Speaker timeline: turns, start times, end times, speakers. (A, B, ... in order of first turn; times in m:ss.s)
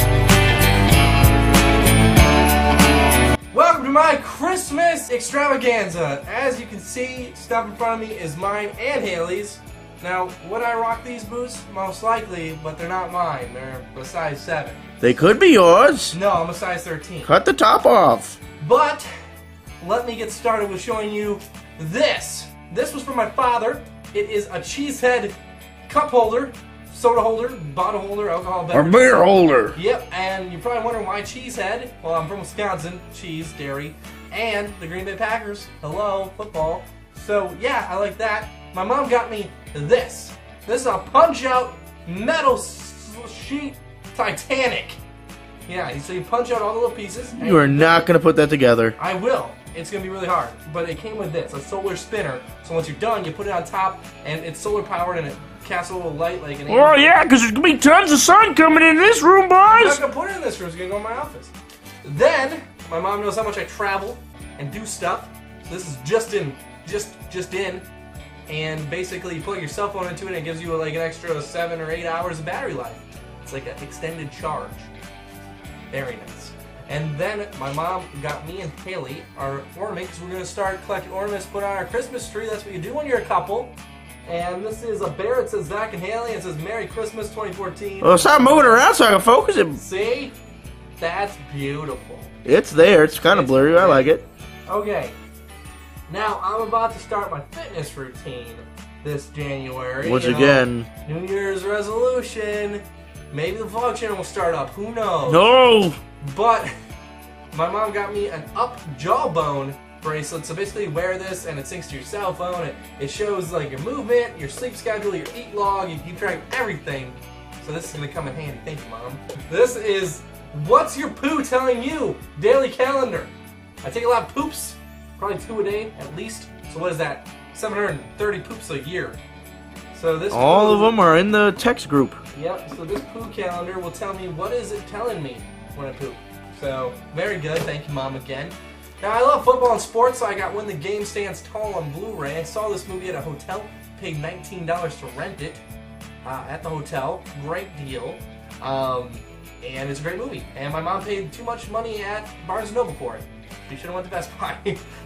0:03.5-0:14.8 A
0:15.0-0:16.2 B
0:16.1-0:17.3 A
0:17.2-0:18.4 B
0:18.6-0:19.1 A
0:19.8-0:25.4 A
0:25.9-0:45.0 A
0:28.7-0:29.8 B
0:45.7-0:48.1 A
0:47.4-0:49.0 B
0:49.0-0:57.1 A
0:56.7-1:00.0 B
0:59.6-1:01.5 A
1:02.0-1:07.8 A
1:08.5-1:14.9 A
1:15.9-1:28.8 A
1:28.0-1:29.8 B
1:29.8-1:30.4 A
1:31.0-1:32.3 A
1:32.4-1:34.2 B
1:33.2-1:34.1 A
1:34.7-1:35.2 A
1:36.1-1:45.4 A
1:40.0-1:40.9 B
1:45.3-1:46.0 B
1:46.2-1:46.7 A
1:47.5-2:09.2 A
2:09.9-2:11.0 A
2:10.3-2:12.2 B
2:12.3-2:25.6 A
2:26.2-2:34.8 A